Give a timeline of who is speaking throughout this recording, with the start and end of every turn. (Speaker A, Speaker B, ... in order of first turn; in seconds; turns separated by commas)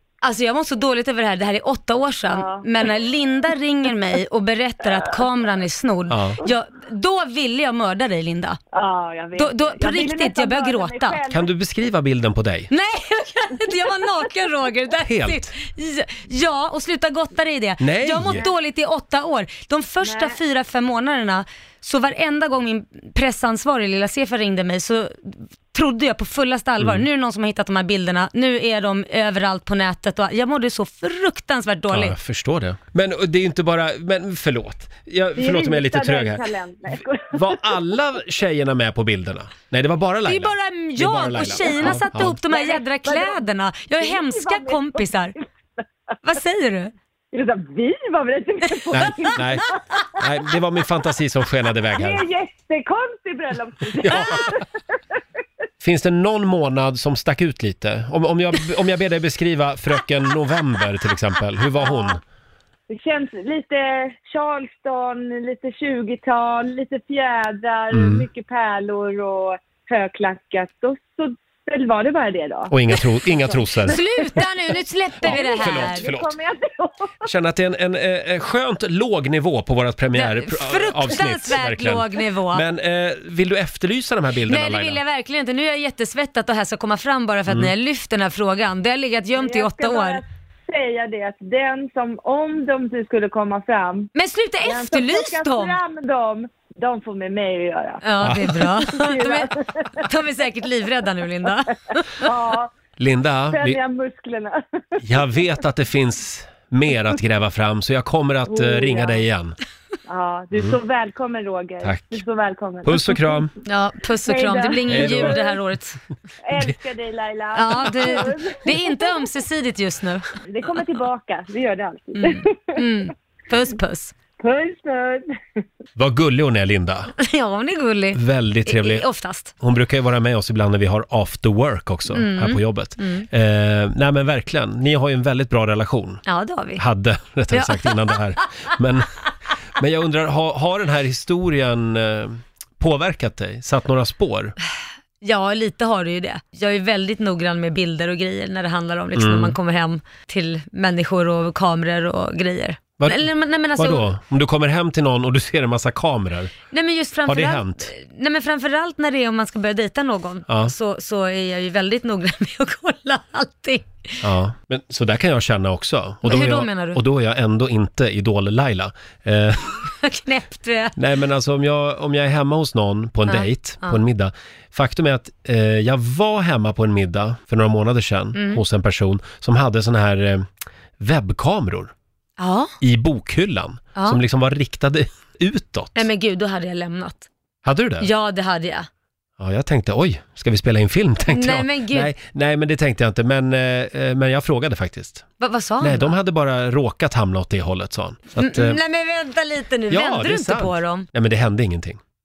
Speaker A: 0.2-8.6, Speaker B: 2.3-2.7, Speaker C: 6.1-6.4, Speaker B: 8.7-11.5, Speaker A: 9.4-11.2, Speaker C: 11.3-12.7, Speaker A: 12.7-32.2, Speaker C: 15.0-15.5, Speaker C: 17.8-18.4, Speaker B: 20.0-20.4, Speaker C: 26.8-27.1, Speaker C: 31.9-36.4, Speaker B: 35.4-37.7, Speaker C: 37.3-42.4, Speaker A: 40.3-45.4, Speaker B: 42.5-43.4, Speaker B: 44.0-45.9, Speaker A: 46.2-46.9, Speaker B: 47.3-50.2, Speaker C: 48.9-52.2, Speaker B: 51.9-54.7, Speaker C: 54.0-54.5, Speaker C: 55.8-62.2, Speaker B: 61.8-62.1, Speaker B: 62.9-74.4, Speaker C: 67.9-68.3, Speaker C: 72.7-74.0, Speaker A: 73.8-76.0, Speaker C: 75.2-76.4, Speaker B: 75.2-77.3, Speaker C: 77.2-85.0, Speaker A: 80.2-82.6, Speaker A: 84.5-90.2, Speaker B: 89.4-94.1, Speaker A: 94.2-95.8, Speaker B: 94.7-100.1, Speaker A: 98.0-102.3, Speaker C: 98.2-98.5, Speaker B: 101.9-102.7, Speaker C: 103.0-103.8, Speaker B: 103.5-105.1, Speaker C: 105.0-109.6, Speaker B: 108.5-109.3, Speaker B: 110.1-113.5, Speaker C: 111.8-112.2, Speaker C: 112.8-113.5, Speaker A: 113.7-116.0, Speaker B: 114.2-115.6, Speaker C: 114.9-115.5, Speaker B: 116.4-119.0, Speaker A: 117.5-120.3, Speaker B: 120.5-122.8, Speaker A: 122.2-124.1, Speaker B: 124.4-125.4, Speaker C: 126.0-127.1, Speaker A: 127.2-129.5, Speaker C: 128.1-129.1, Speaker C: 129.6-136.2, Speaker A: 132.1-133.3, Speaker A: 136.3-136.8, Speaker C: 136.8-139.1, Speaker A: 137.5-138.2, Speaker C: 139.8-144.6, Speaker A: 145.2-154.1, Speaker C: 149.1-149.6, Speaker C: 153.0-156.5, Speaker A: 156.7-164.2, Speaker C: 157.3-157.9, Speaker C: 160.5-160.7, Speaker C: 164.2-169.9, Speaker A: 166.2-167.0, Speaker A: 169.9-171.0, Speaker C: 171.0-181.9, Speaker A: 173.3-174.0, Speaker A: 178.3-178.6, Speaker A: 182.4-182.8, Speaker C: 182.8-186.1, Speaker A: 183.9-184.2, Speaker A: 185.9-187.3, Speaker C: 187.6-188.1, Speaker A: 188.0-188.9, Speaker C: 189.4-195.3, Speaker A: 191.3-192.1, Speaker A: 195.4-196.2, Speaker C: 195.8-198.8, Speaker A: 198.4-201.1, Speaker C: 199.9-202.0